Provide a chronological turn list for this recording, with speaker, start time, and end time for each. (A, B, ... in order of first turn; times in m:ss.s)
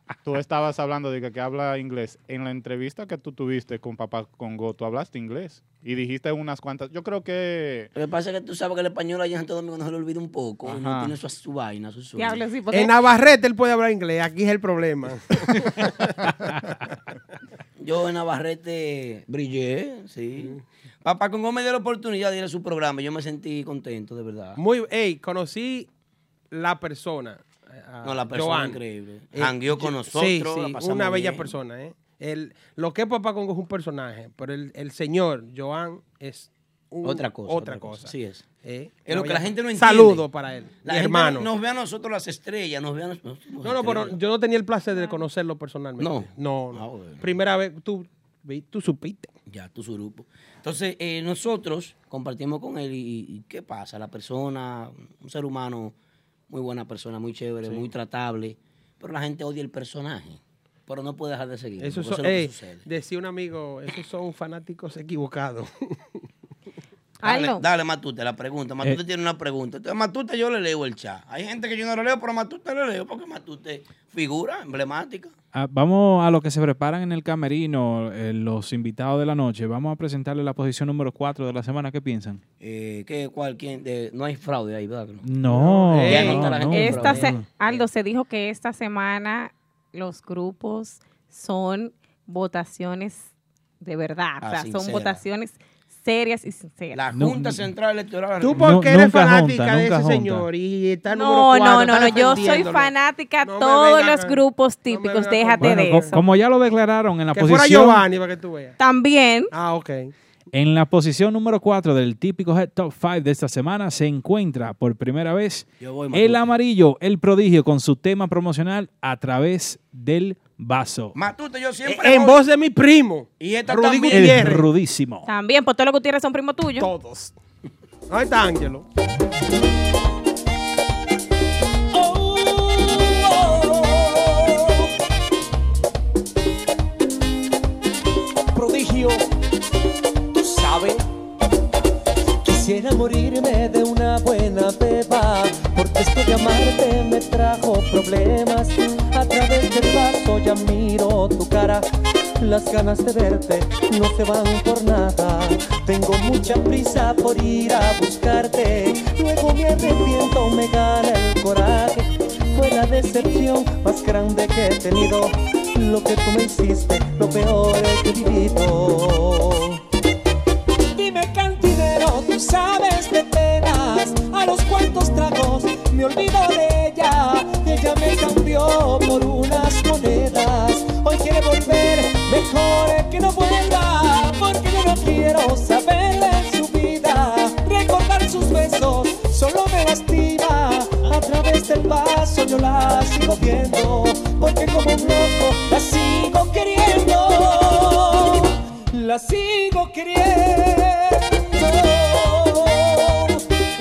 0:00.2-0:07.9 A
0:07.9-0:12.4 B
0:10.7-0:11.1 A
0:12.2-0:12.9 C
0:12.7-0:16.6 D
0:17.8-0:24.6 B
0:24.6-0:25.9 D
0:26.5-0:28.8 D
0:28.0-0:31.5 B
0:29.3-0:41.5 D
0:37.0-0:38.5 B
0:39.0-0:40.2 B
0:40.8-0:44.2 B
0:43.6-0:49.3 D
0:46.0-0:47.4 B
0:49.5-0:55.9 B
0:56.5-1:02.8 B
1:01.8-1:06.0 D
1:07.2-1:07.6 C
1:07.2-1:15.3 B
1:15.5-1:22.4 E
1:22.6-1:25.3 B
1:25.2-1:27.4 E
1:25.5-1:26.5 D
1:26.0-1:27.8 B
1:26.7-1:37.0 C
1:34.4-1:35.2 B
1:36.9-1:38.6 B
1:37.1-1:37.6 E
1:38.4-1:46.1 D
1:38.5-1:40.4 E
1:41.1-1:46.2 C
1:45.6-1:48.0 E
1:47.3-1:48.8 D
1:48.8-1:49.5 C
1:49.5-1:50.1 D
1:50.5-2:01.2 E
1:55.8-1:56.4 B
2:01.1-2:02.4 B
2:01.8-2:04.7 D
2:03.4-2:04.6 B
2:04.1-2:05.3 E
2:05.2-2:06.9 C
2:06.8-2:07.3 D
2:08.1-2:08.8 D
2:11.9-2:14.9 F
2:18.5-2:19.2 F
2:20.3-2:21.0 F
2:22.4-2:49.8 F
2:50.9-3:23.4 F